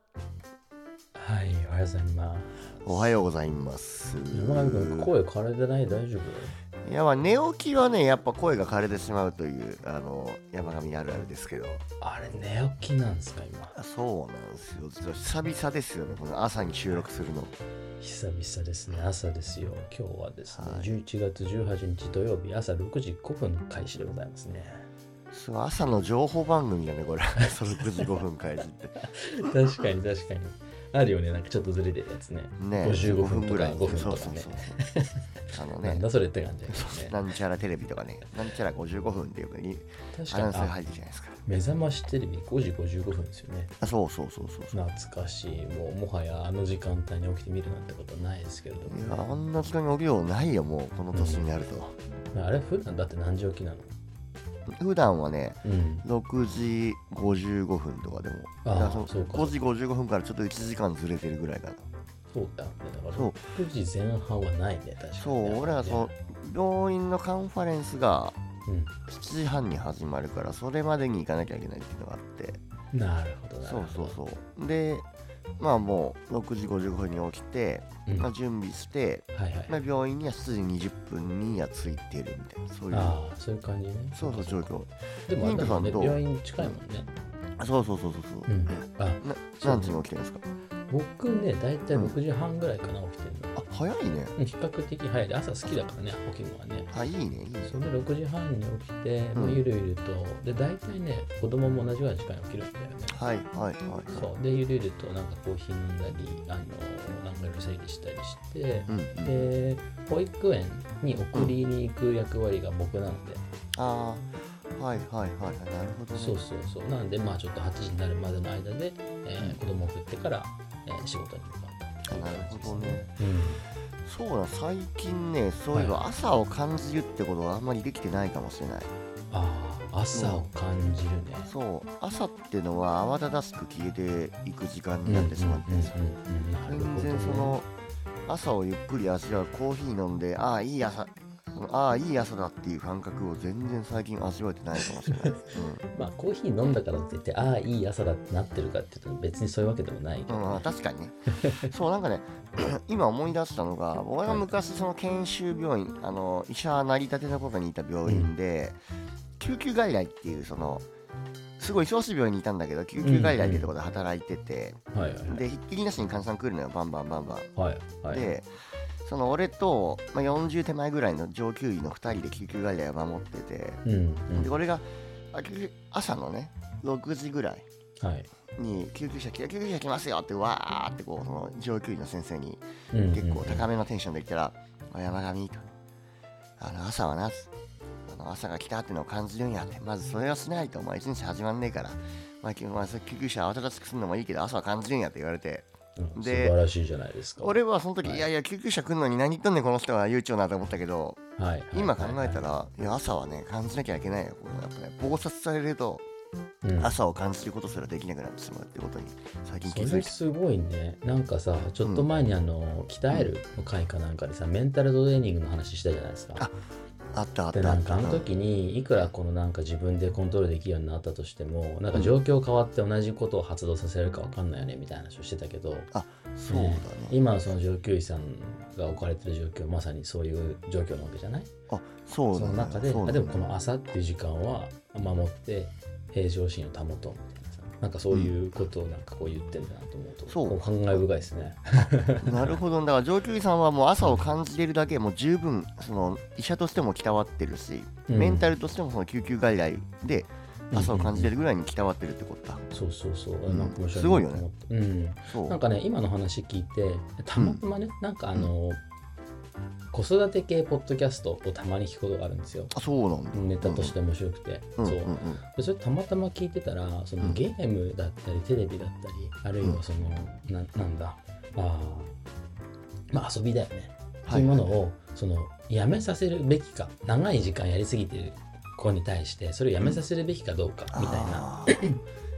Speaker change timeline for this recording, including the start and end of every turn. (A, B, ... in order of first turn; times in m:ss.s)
0:01.2-0:03.2 A
0:02.8-0:05.1 B
0:04.3-0:06.6 A
0:06.8-0:11.8 B
0:12.0-0:13.8 A
0:13.7-0:17.6 B
0:18.0-0:24.9 A
0:20.5-0:21.0 B
0:25.3-0:29.0 B
0:29.0-0:35.2 A
0:32.6-0:34.8 B
0:35.5-0:36.1 B
0:35.8-0:37.2 A
0:36.7-0:41.4 B
0:40.1-0:40.8 A
0:41.5-0:43.7 A
0:43.8-0:44.8 B
0:44.7-0:49.3 A
0:48.9-0:52.0 B
0:51.1-0:51.5 A
0:52.3-0:53.9 A
0:54.7-1:01.9 B
0:55.6-0:56.0 A
0:58.6-0:59.6 A
1:02.3-1:06.1 A
1:03.1-1:03.5 B
1:05.2-1:08.4 B
1:08.7-1:09.0 A
1:09.1-1:12.6 B
1:12.9-1:14.2 A
1:13.6-1:15.1 B
1:15.6-1:23.2 B
1:18.1-1:18.3 A
1:19.3-1:19.8 A
1:22.9-1:27.1 A
1:24.2-1:26.8 B
1:27.6-1:30.4 B
1:28.5-1:30.1 A
1:30.9-1:33.6 A
1:33.6-1:34.4 B
1:34.4-1:36.9 A
1:36.9-1:37.9 B
1:37.6-1:43.2 A
1:39.4-1:39.6 B
1:43.1-1:44.3 B
1:44.1-1:53.4 A
1:48.9-1:49.5 B
1:53.8-1:56.4 B
1:56.1-2:03.6 A
2:02.1-2:03.1 B
2:04.0-2:08.9 B
2:05.7-2:06.0 A
2:09.3-2:11.5 A
2:10.1-2:10.5 B
2:11.4-2:16.0 B
2:15.0-2:17.6 A
2:16.7-2:17.7 B
2:18.3-2:25.8 B
2:25.9-2:30.7 A
2:30.3-2:38.8 B
2:38.0-2:38.3 A
2:39.4-2:40.9 B
2:41.6-2:47.5 B
2:43.0-2:43.7 A
2:44.9-2:45.4 A
2:47.6-2:48.3 A
2:48.1-2:48.5 B
2:49.0-2:53.8 B
2:53.8-2:54.6 A
2:54.3-2:57.7 B
2:58.0-2:58.3 A
2:58.5-3:05.7 B
3:02.9-3:03.7 A
3:06.6-3:07.5 B
3:08.1-3:16.6 B
3:16.0-3:18.3 A
3:17.4-3:21.2 B
3:21.4-3:22.4 A
3:21.7-3:26.0 B
3:26.6-3:27.0 A
3:26.8-3:30.2 B
3:29.6-3:36.4 A
3:37.1-3:38.3 B
3:37.5-3:45.9 A
3:45.9-3:47.2 B
3:46.5-3:51.5 A
3:51.7-3:53.5 B
3:52.3-4:02.6 A
3:58.1-3:58.4 B
4:00.3-4:01.0 B
4:02.2-4:12.6 B
4:04.0-4:04.3 A
4:08.1-4:08.5 A
4:10.7-4:11.4 A
4:12.7-4:18.8 A
4:13.5-4:14.4 B
4:15.3-4:15.6 B
4:17.4-4:17.6 B
4:19.9-4:22.7 A
4:22.7-4:24.0 B
4:23.3-4:32.2 A
4:24.8-4:25.4 B
4:33.1-4:42.0 A
4:34.2-4:34.8 B
4:40.9-4:41.9 B